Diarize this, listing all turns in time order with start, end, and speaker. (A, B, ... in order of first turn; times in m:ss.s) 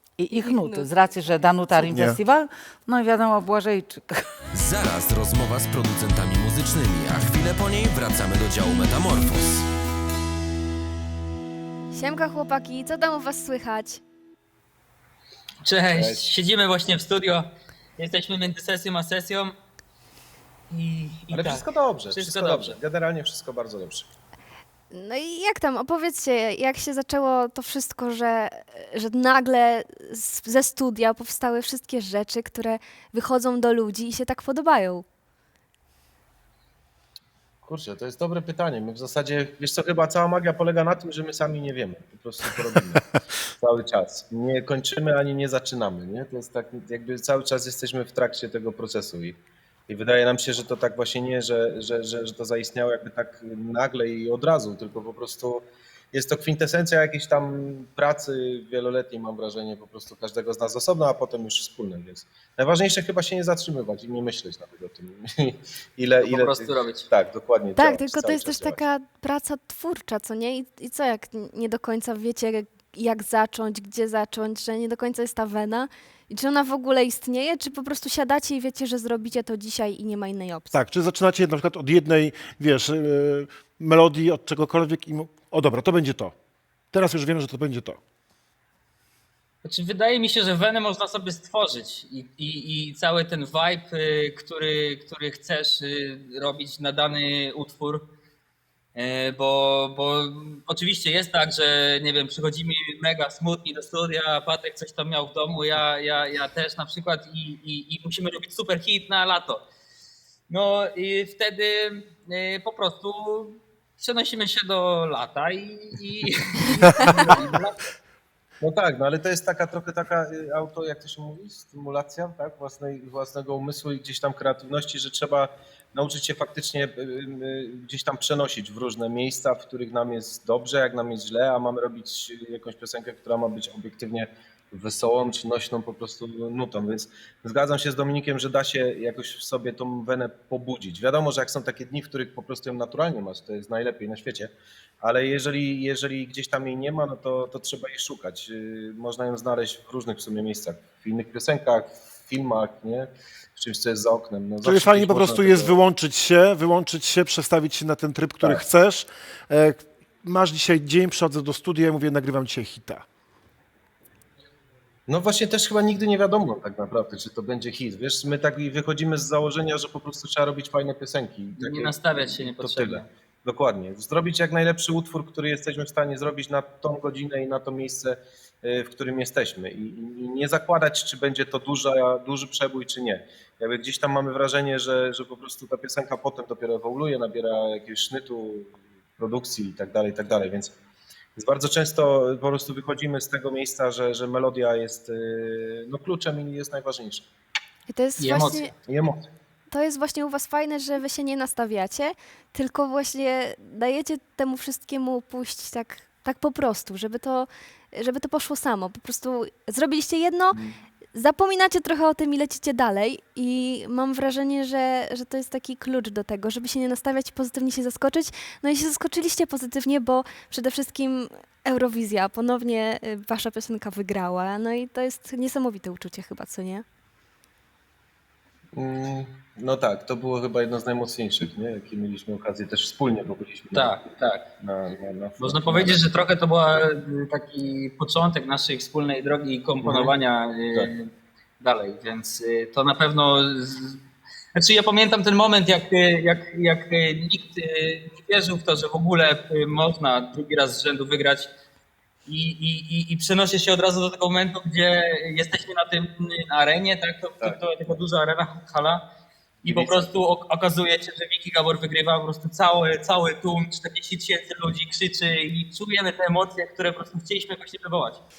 0:00.2-0:04.2 A
0:00.3-0:00.9 B
0:01.7-0:02.2 C
0:04.5-0:09.6 D
0:11.9-0:14.0 B
0:15.6-0:19.5 E
0:15.8-0:16.3 F
0:20.7-0:22.8 E
0:21.3-0:24.0 F
0:24.9-0:35.0 B
0:37.6-0:43.0 F
0:43.6-0:49.4 F
0:49.9-1:08.8 F
1:06.2-1:07.1 E
1:07.7-1:20.8 B
1:20.7-1:26.3 C
1:26.9-1:28.0 C
1:29.6-1:38.0 E
1:38.9-1:49.6 E
1:50.5-1:51.8 E
1:52.3-1:57.8 E
1:58.6-2:35.8 F
2:34.6-2:43.0 C
2:38.4-2:38.6 F
2:45.1-3:10.7 F
2:51.6-2:53.0 E
3:11.4-3:17.2 F
3:17.9-3:18.7 B
3:18.2-3:18.6 E
3:18.8-3:19.3 F
3:19.7-3:30.6 B
3:31.1-3:46.8 B
3:48.7-3:54.1 F
3:53.7-3:54.4 E
3:54.6-3:56.1 F
3:55.4-4:00.8 E
3:59.8-4:00.1 F
4:01.6-4:04.0 E
4:04.6-4:11.5 E
4:12.3-4:19.0 E
4:19.6-4:20.1 F
4:19.7-4:28.2 E